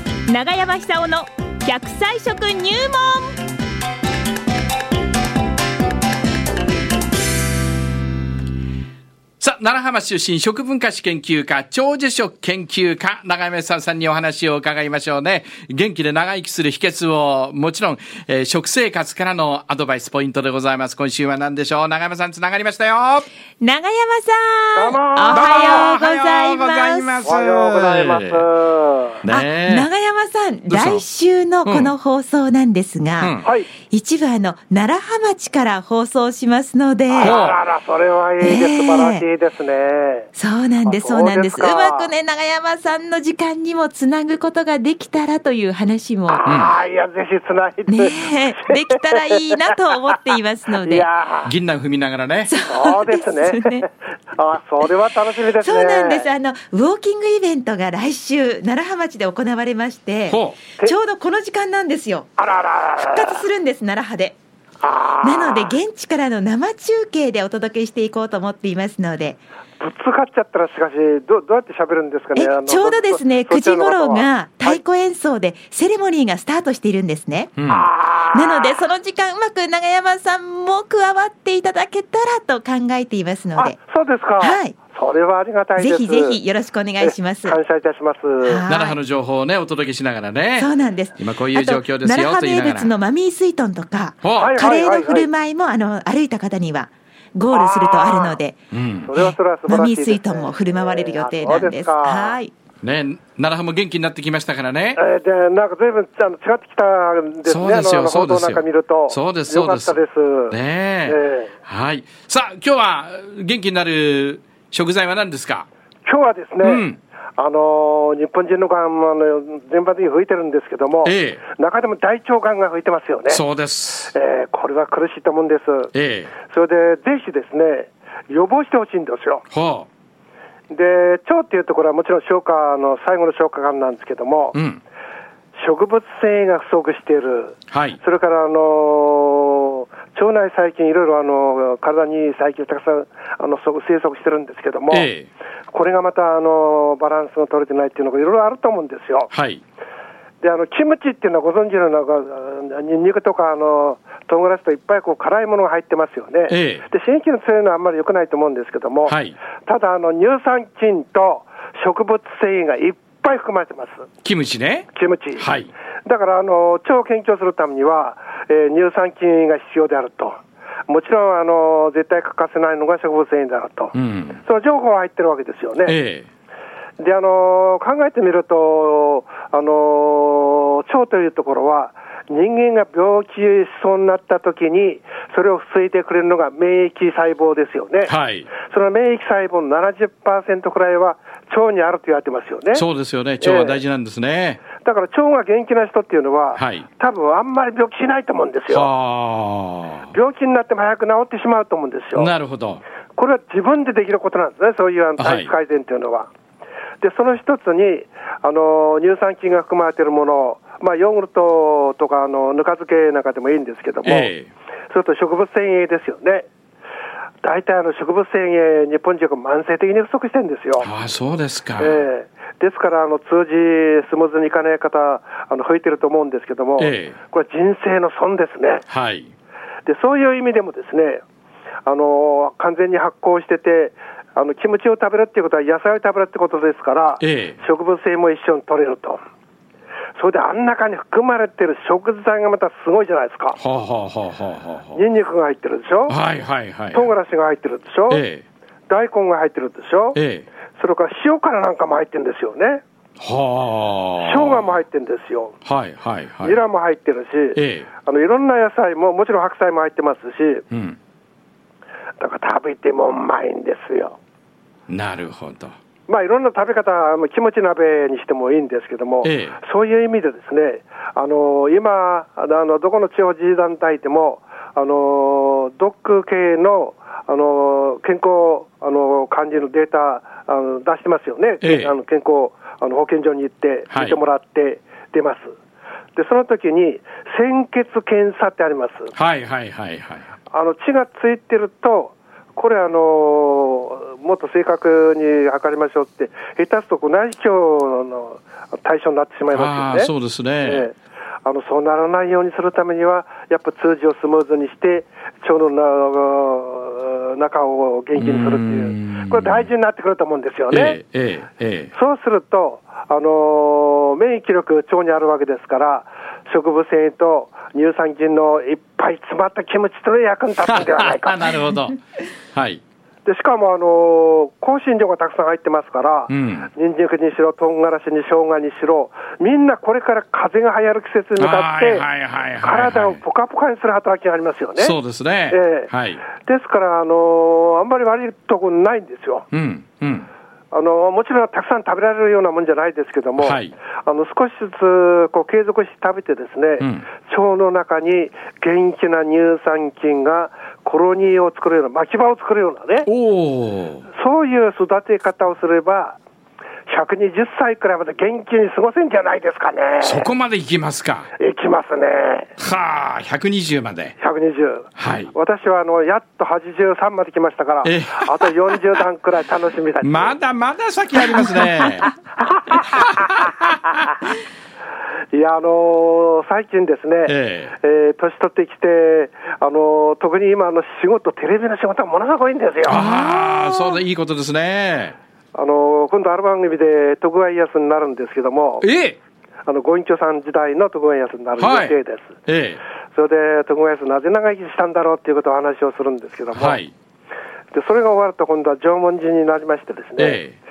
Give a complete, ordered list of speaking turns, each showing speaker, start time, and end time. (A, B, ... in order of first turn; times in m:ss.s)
0:00.3-0:03.3 A
0:09.4-0:23.3 B
0:23.6-0:27.2 A
0:24.8-0:25.9 C
0:25.3-0:28.5 B
0:27.2-0:29.2 C
0:29.2-0:29.9 B
0:29.3-0:33.4 A
0:30.7-0:31.0 B
0:31.6-0:31.9 B
0:33.2-0:33.4 B
0:33.4-0:33.7 C
0:33.9-0:37.4 A
0:37.1-0:40.3 C
0:37.2-0:37.6 B
0:38.4-0:39.2 A
0:40.4-0:46.4 A
0:40.9-0:42.1 C
0:46.3-0:50.2 C
0:46.5-0:46.8 B
0:47.9-0:51.0 A
0:50.8-0:51.5 C
0:51.4-0:52.5 B
0:52.5-0:53.8 A
0:52.7-0:56.3 C
0:55.6-1:02.3 A
1:00.3-1:00.6 B
1:02.4-1:03.4 C
1:03.0-1:04.4 A
1:04.8-1:05.8 C
1:05.2-1:09.4 A
1:09.8-1:14.8 C
1:12.3-1:17.5 A
1:17.6-1:17.9 B
1:17.7-1:18.8 C
1:18.3-1:23.8 A
1:23.6-1:26.4 C
1:24.4-1:24.8 A
1:25.8-1:27.6 A
1:27.0-1:28.6 C
1:28.4-1:29.0 A
1:28.7-1:32.9 B
1:30.6-1:38.6 A
1:34.2-1:34.5 B
1:34.4-1:35.3 C
1:37.5-1:38.4 C
1:38.7-1:39.1 B
1:39.0-1:42.4 C
1:39.7-1:42.5 A
1:42.8-1:45.0 B
1:45.0-1:51.5 C
1:47.4-1:50.0 B
1:50.5-1:55.7 B
1:56.0-1:56.8 C
1:56.6-1:57.0 B
1:57.4-2:03.4 C
2:01.0-2:01.4 B
2:03.3-2:04.1 B
2:04.1-2:05.9 C
2:05.9-2:06.3 B
2:06.4-2:09.4 C
2:09.5-2:09.9 B
2:10.7-2:14.6 C
2:14.5-2:14.8 B
2:15.6-2:25.1 C
2:17.7-2:18.0 B
2:24.9-2:25.3 B
2:25.7-2:29.3 C
2:29.3-2:29.6 B
2:30.4-2:44.1 C
2:36.5-2:36.8 B
2:39.1-2:39.4 B
2:44.2-2:45.7 B
2:44.9-2:45.5 C
2:46.0-2:56.0 C
2:53.9-2:54.4 B
2:55.8-2:56.3 B
2:57.0-3:12.8 C
3:08.0-3:08.5 B
3:12.7-3:14.6 B
3:13.4-3:13.8 C
3:14.8-3:18.9 C
3:16.6-3:16.9 B
3:18.7-3:20.1 B
3:20.1-3:22.3 C
3:22.2-3:22.8 B
3:23.2-3:26.3 C
3:25.2-3:25.5 B
3:27.0-3:34.3 C
3:34.0-3:34.5 B
3:34.9-3:36.5 C
3:37.4-3:40.9 C
3:40.8-3:42.0 B
3:41.8-3:48.8 C
3:46.8-3:47.2 B
3:48.9-3:49.3 B
3:49.8-3:51.2 C
3:51.8-3:59.2 C
3:57.2-3:57.6 B
4:00.2-4:03.6 C
4:03.6-4:05.0 B
4:04.9-4:06.2 C
4:06.1-4:07.1 B
4:06.9-4:08.2 C
4:08.1-4:08.4 B
4:08.9-4:10.2 C
4:10.1-4:10.4 B
4:10.8-4:12.8 C
4:13.2-4:14.8 B
4:14.2-4:15.6 C
4:15.6-4:16.6 B
4:16.4-4:20.6 C
4:17.6-4:17.9 B
4:20.7-4:21.0 B
4:22.2-4:24.2 C
4:24.9-4:25.8 B
4:26.1-4:45.6 C
4:29.2-4:29.6 B
4:41.6-4:41.9 B
4:43.9-4:44.2 B
4:46.2-4:49.1 C
4:49.1-4:50.2 B
4:50.5-5:11.0 C
4:59.5-5:00.9 B
5:08.1-5:09.7 B
5:10.7-5:11.9 B
5:11.9-5:21.5 C
5:20.6-5:22.0 B
5:22.5-5:22.8 B
5:23.2-5:32.1 C
5:26.3-5:26.7 B
5:31.4-5:33.2 B
5:32.6-5:35.0 C
5:34.8-5:36.2 B
5:35.5-5:39.4 C
5:39.5-5:40.3 B
5:40.7-5:53.1 C
5:43.4-5:43.8 B
5:53.1-5:54.1 B
5:54.1-5:56.2 C
5:56.9-6:00.3 C
6:00.0-6:01.3 B
6:01.4-6:02.5 C
6:02.6-6:04.1 B
6:04.2-6:10.4 C
6:05.0-6:05.3 B
6:07.8-6:08.5 B
6:10.0-6:12.1 B
6:12.5-6:13.2 C
6:12.7-6:14.0 B
6:15.3-6:23.1 C
6:17.3-6:17.7 B
6:22.8-6:25.2 B
6:25.5-6:28.9 C
6:28.8-6:29.2 B
6:29.7-6:32.3 C
6:31.6-6:32.0 B
6:32.5-6:32.8 B
6:33.1-6:36.8 C
6:36.5-6:36.9 B
6:37.7-6:40.4 C
6:40.2-6:40.6 B